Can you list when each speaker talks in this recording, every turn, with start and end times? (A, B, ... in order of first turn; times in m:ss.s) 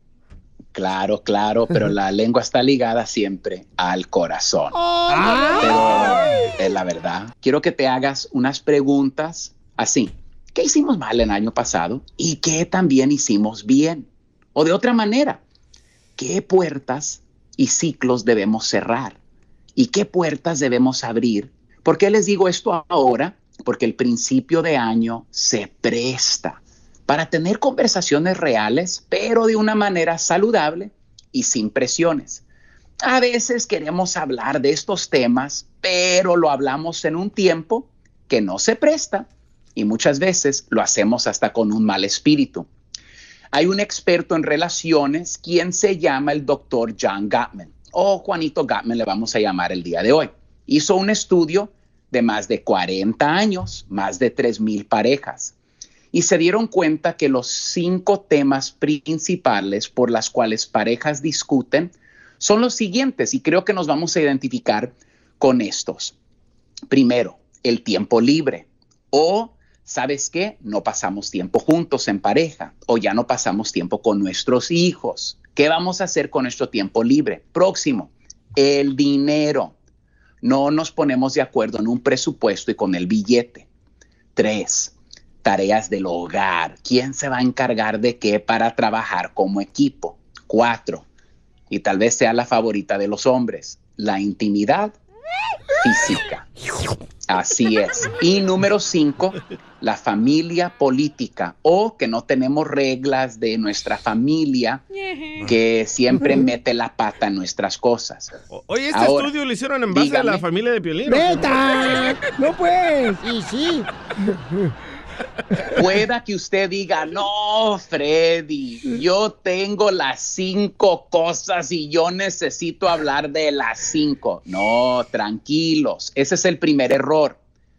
0:00.7-0:04.8 A
0:04.7-0:06.0 B
0:05.6-0:15.4 A
0:16.2-0:19.2 A
0:19.8-0:32.4 A
0:33.0-0:42.7 A
0:43.5-0:55.5 A
0:56.1-1:06.1 A
1:06.9-1:19.7 A
1:20.4-1:23.6 A
1:24.4-1:24.9 A
1:25.4-1:31.0 A
1:31.7-1:34.9 A
1:35.8-1:36.4 A
1:37.3-1:44.8 A
1:45.4-1:48.3 A
1:48.5-1:51.5 C
1:48.9-1:49.3 A
1:49.9-1:50.4 A
1:51.1-1:54.7 B
1:55.7-2:07.4 A